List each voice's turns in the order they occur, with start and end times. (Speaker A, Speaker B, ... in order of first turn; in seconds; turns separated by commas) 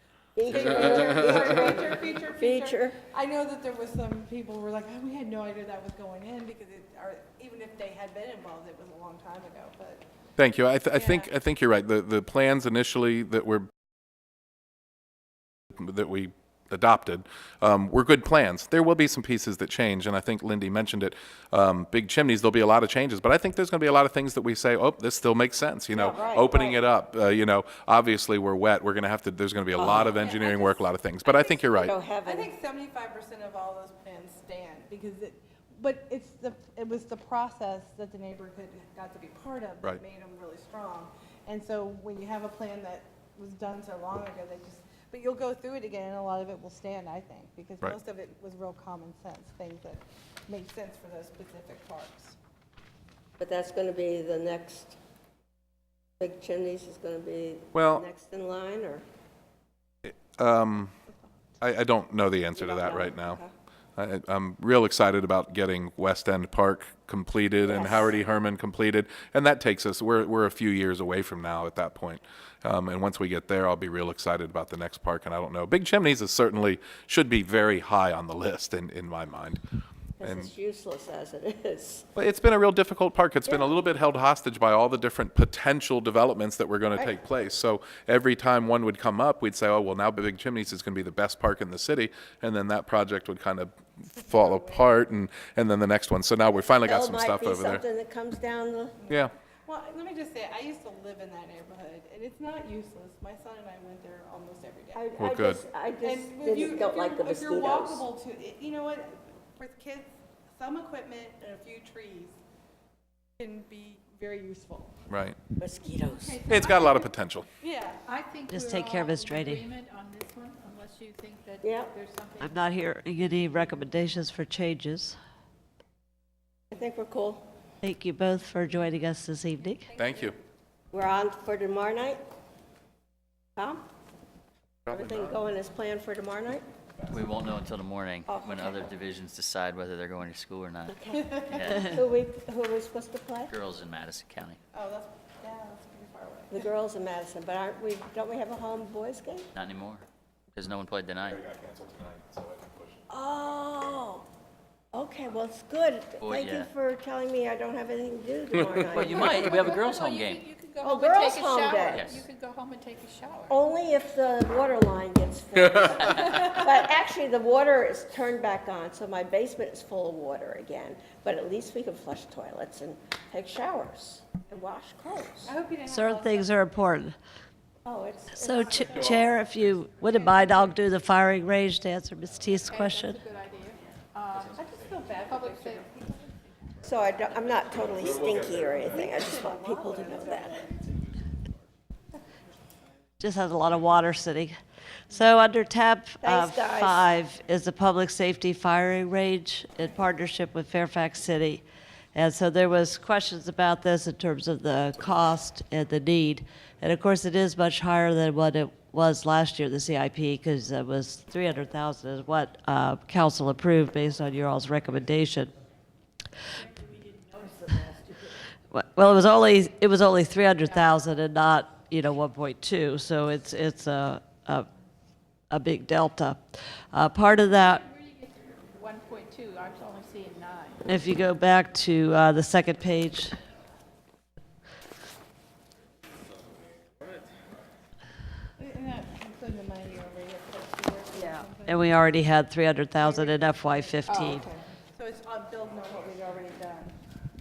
Speaker A: 0.4-3.0, Speaker B: 0.5-10.0, Speaker C: 10.4-13.7, Speaker B: 10.9-11.3, Speaker C: 15.8-31.9, Speaker A: 25.9-26.8, Speaker B: 26.1-26.4, Speaker B: 29.9-52.4, Speaker A: 31.8-32.5, Speaker A: 53.4-55.0, Speaker A: 56.2-59.0, Speaker C: 57.7-58.0, Speaker C: 60.0-60.9, Speaker C: 61.6-63.4, Speaker A: 62.6-63.5, Speaker C: 64.0-79.6, Speaker A: 67.6-68.2, Speaker A: 80.2-82.1, Speaker C: 80.2-80.5, Speaker C: 82.2-97.8, Speaker B: 94.2-95.0, Speaker A: 96.8-99.0, Speaker B: 99.0-105.1, Speaker A: 104.9-108.1, Speaker C: 105.2-105.6, Speaker B: 106.0-112.4, Speaker B: 113.4-114.9, Speaker C: 115.1-115.4, Speaker A: 115.6-116.5, Speaker D: 115.9-117.1, Speaker C: 116.5-117.5, Speaker B: 117.6-118.0, Speaker D: 118.0-122.7, Speaker E: 118.5-119.7, Speaker A: 121.6-122.0, Speaker E: 122.4-125.2, Speaker A: 126.7-127.5, Speaker E: 127.8-130.0, Speaker D: 129.8-130.3, Speaker C: 130.0-130.4, Speaker A: 130.9-132.2, Speaker A: 133.6-133.8, Speaker A: 134.9-136.6, Speaker C: 134.9-135.3, Speaker F: 137.1-142.1, Speaker A: 138.3-138.9, Speaker A: 140.9-143.5, Speaker F: 143.5-144.6, Speaker B: 144.7-146.6, Speaker A: 146.5-149.5, Speaker F: 149.5-150.0, Speaker F: 150.6-151.4, Speaker C: 151.2-153.1, Speaker A: 153.1-154.2, Speaker A: 154.9-159.8, Speaker F: 156.2-156.7, Speaker F: 158.9-160.4, Speaker D: 159.0-163.6, Speaker A: 160.8-162.2, Speaker F: 161.9-162.2, Speaker A: 163.5-175.5, Speaker B: 175.4-176.5, Speaker E: 175.9-177.2, Speaker A: 177.8-179.2, Speaker E: 178.4-183.2, Speaker B: 178.6-179.1, Speaker B: 180.3-180.5, Speaker D: 182.7-185.9, Speaker B: 184.5-186.8, Speaker A: 186.8-190.7, Speaker C: 188.1-188.8, Speaker B: 188.8-190.9, Speaker E: 193.2-194.6, Speaker E: 195.1-215.5, Speaker A: 196.2-197.1, Speaker A: 217.3-218.3, Speaker E: 218.7-224.7, Speaker E: 225.5-227.9, Speaker D: 227.6-230.9, Speaker E: 230.8-233.4, Speaker B: 238.6-242.0, Speaker E: 241.2-244.4, Speaker B: 243.0-247.0, Speaker D: 244.1-244.4